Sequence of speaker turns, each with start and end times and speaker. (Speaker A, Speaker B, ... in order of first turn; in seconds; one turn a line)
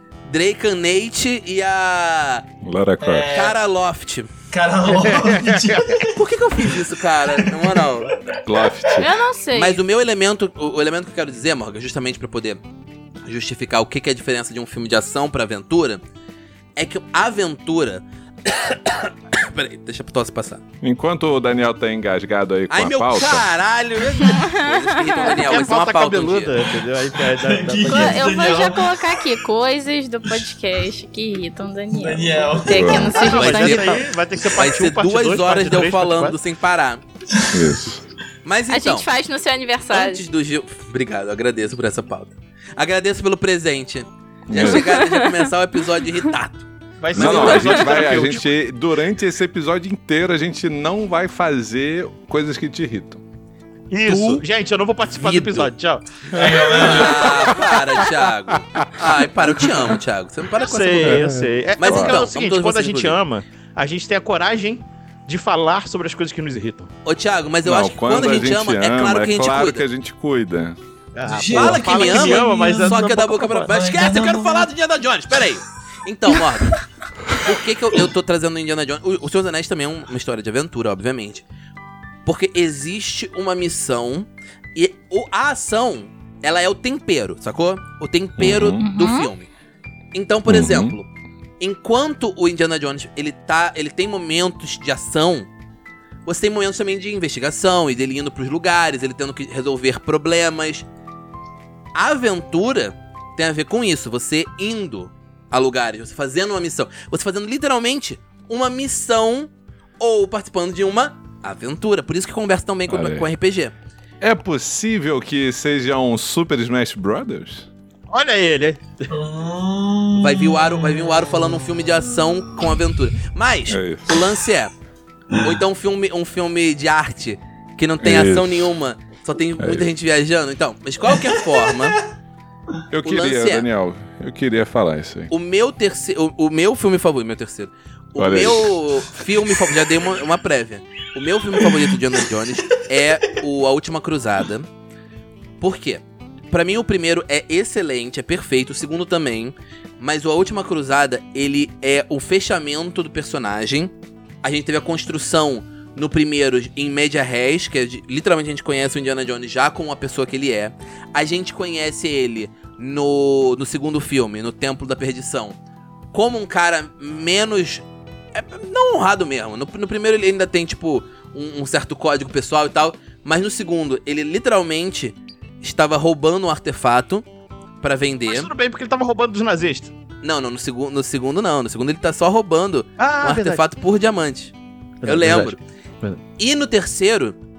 Speaker A: 0.3-2.5
Speaker B: 2.6-3.3
Speaker C: 3.0-3.6
Speaker A: 3.3-4.3
Speaker C: 4.5-9.0
Speaker D: 4.9-6.0
Speaker A: 6.1-8.2
Speaker B: 8.4-9.1
Speaker E: 8.9-9.8
Speaker A: 9.5-12.6
Speaker A: 13.2-16.0
Speaker A: 16.8-20.6
Speaker B: 20.8-23.5
Speaker A: 22.7-26.6
Speaker E: 24.2-25.5
Speaker D: 25.4-28.2
Speaker C: 27.3-29.3
Speaker E: 27.9-34.0
Speaker C: 31.9-33.5
Speaker B: 32.7-33.1
Speaker D: 33.1-36.4
Speaker A: 33.2-37.0
Speaker B: 37.5-38.0
Speaker A: 38.5-39.1
Speaker E: 38.7-40.2
Speaker A: 39.9-47.9
Speaker B: 44.5-44.9
Speaker E: 44.6-45.4
Speaker D: 47.0-48.5
Speaker B: 47.1-53.2
Speaker D: 53.9-57.3
Speaker A: 54.1-54.4
Speaker A: 55.1-55.7
Speaker C: 56.3-57.5
Speaker A: 56.7-61.2
Speaker D: 60.6-66.9
Speaker B: 61.0-62.3
Speaker A: 61.8-63.2
Speaker A: 67.0-69.8
Speaker B: 67.6-70.8
Speaker D: 71.2-73.7
Speaker C: 71.3-73.1
Speaker A: 71.5-81.5
Speaker C: 73.7-74.7
Speaker A: 82.3-89.5
Speaker B: 88.4-88.8
Speaker E: 88.8-89.3
Speaker A: 90.1-91.1
Speaker B: 90.5-91.0
Speaker A: 91.6-95.5
Speaker A: 96.3-100.9
Speaker A: 102.0-113.7
Speaker B: 112.9-113.3
Speaker B: 114.2-117.7
Speaker D: 118.1-119.1
Speaker C: 119.1-121.3
Speaker A: 120.2-124.8
Speaker B: 123.7-124.2
Speaker A: 125.3-132.0
Speaker B: 128.0-128.7
Speaker B: 129.6-129.9
Speaker B: 132.9-135.3
Speaker A: 133.0-133.7
Speaker A: 135.3-144.7
Speaker B: 138.2-138.8
Speaker A: 145.6-153.9
Speaker A: 154.4-165.6
Speaker A: 166.1-177.2
Speaker A: 177.8-178.5
Speaker D: 178.3-179.9
Speaker A: 180.2-184.5
Speaker D: 183.0-183.6
Speaker D: 185.0-186.2
Speaker A: 185.0-185.6
Speaker A: 186.4-187.3